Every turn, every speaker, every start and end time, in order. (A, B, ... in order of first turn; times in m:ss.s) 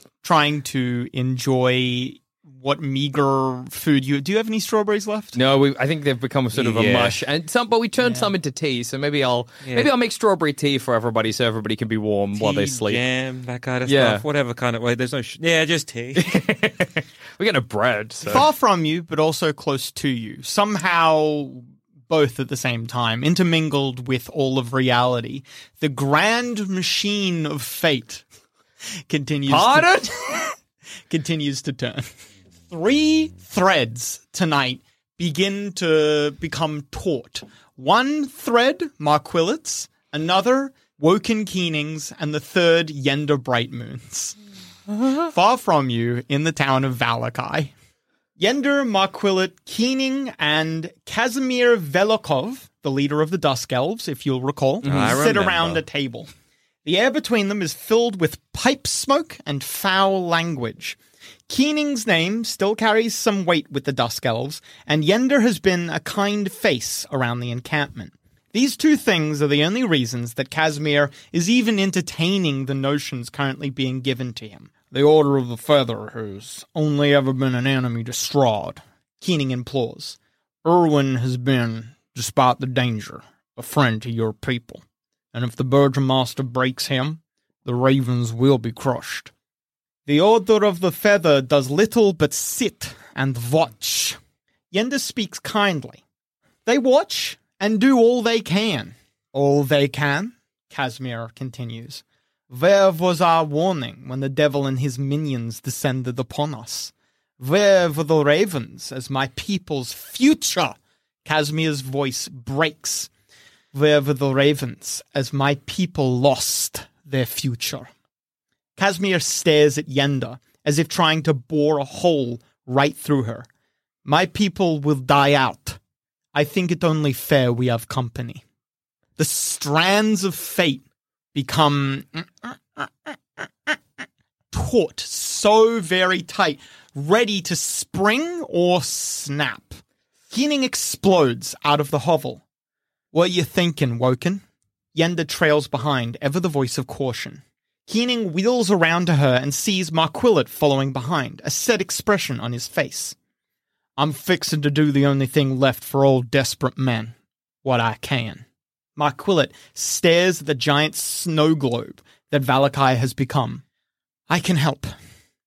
0:00.2-0:05.4 A
0:05.3-0:13.0 B
0:06.5-0:07.2 C
0:08.0-0:08.3 A
0:09.6-0:09.9 C
0:12.4-0:16.3 C
0:13.9-0:14.2 B
0:16.2-0:18.4 B
0:18.2-0:28.2 A
0:29.1-0:30.2 A
0:29.5-0:30.5 B
0:31.1-0:32.0 A
0:32.7-0:44.4 A
0:45.1-0:47.7 A
0:48.4-0:56.3 A
0:54.8-0:55.8 C
0:54.8-0:55.2 B
0:56.8-1:29.3 A
1:30.0-1:34.2 A
1:34.7-1:36.0 A
1:36.6-1:53.1 A
1:53.7-1:57.9 A
1:58.8-2:03.5 A
2:04.0-2:05.8 A
2:06.3-2:08.4 A
2:09.2-2:13.8 A
2:14.5-2:22.4 A
2:23.1-2:24.4 A
2:24.9-2:33.2 A
2:34.0-2:38.4 A
2:39.0-2:43.6 A
2:44.3-2:44.9 A